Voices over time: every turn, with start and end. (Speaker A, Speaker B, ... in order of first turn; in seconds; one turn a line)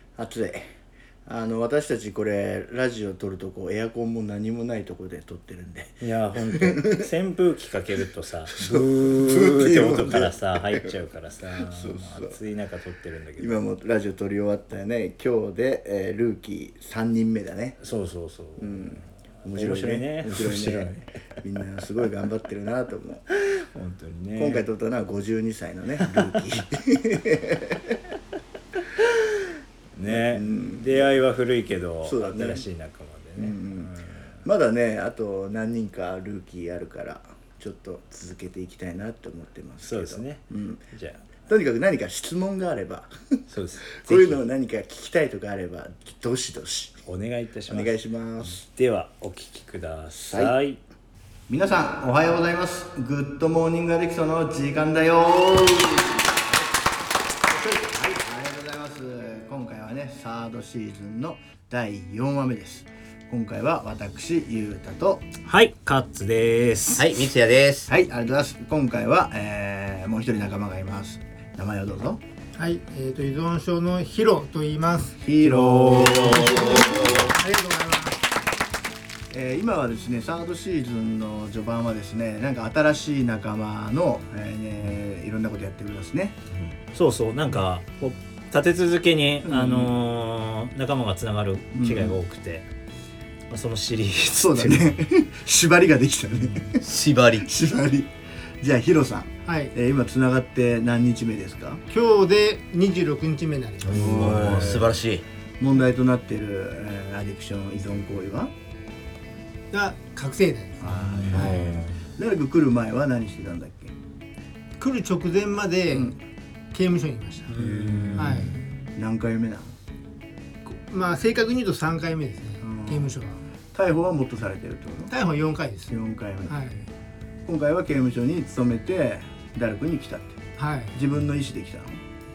Speaker A: 0.2-0.7
Speaker A: 1.3-7.0
Speaker B: 6.0-13.6
Speaker A: 8.6-10.9
Speaker A: 11.7-12.4
Speaker A: 13.4-17.8
Speaker B: 17.8-21.1
Speaker A: 18.6-23.6
Speaker B: 23.8-24.6
Speaker A: 24.4-28.0
Speaker B: 29.9-34.3
Speaker A: 30.1-31.1
Speaker A: 32.0-32.7
Speaker A: 33.4-33.9
Speaker A: 34.4-40.8
Speaker B: 39.8-41.2
Speaker A: 41.5-43.4
Speaker B: 43.5-44.4
Speaker A: 44.0-47.0
Speaker B: 47.1-50.8
Speaker A: 47.7-48.6
Speaker A: 50.3-50.6
Speaker A: 51.5-56.5
Speaker A: 57.5-65.3
Speaker B: 65.5-67.3
Speaker C: 66.9-67.9
Speaker A: 67.9-72.2
Speaker D: 72.5-75.2
Speaker A: 75.2-77.2
Speaker B: 75.4-76.7
Speaker D: 76.1-78.2
Speaker C: 76.5-77.2
Speaker A: 79.3-86.4
Speaker B: 86.9-92.7
Speaker A: 89.5-90.0
Speaker A: 91.8-92.2
Speaker B: 93.5-95.0
Speaker A: 94.3-96.8
Speaker C: 96.8-97.5
Speaker A: 97.4-101.8
Speaker D: 99.5-99.7
Speaker D: 101.9-104.2
Speaker C: 103.8-105.2
Speaker A: 103.9-105.0
Speaker B: 104.2-104.8
Speaker A: 105.6-108.5
Speaker D: 109.7-110.8
Speaker A: 110.8-113.9
Speaker B: 110.9-112.0
Speaker D: 114.8-116.1
Speaker A: 115.9-116.2
Speaker D: 116.7-117.5
Speaker B: 117.5-118.7
Speaker A: 117.6-119.7
Speaker D: 118.2-118.6
Speaker D: 120.7-123.4
Speaker A: 122.6-123.1
Speaker A: 123.7-125.1
Speaker D: 125.1-126.0
Speaker A: 125.9-126.6
Speaker D: 126.5-126.9
Speaker A: 127.5-130.4
Speaker D: 130.6-130.9
Speaker A: 130.9-132.0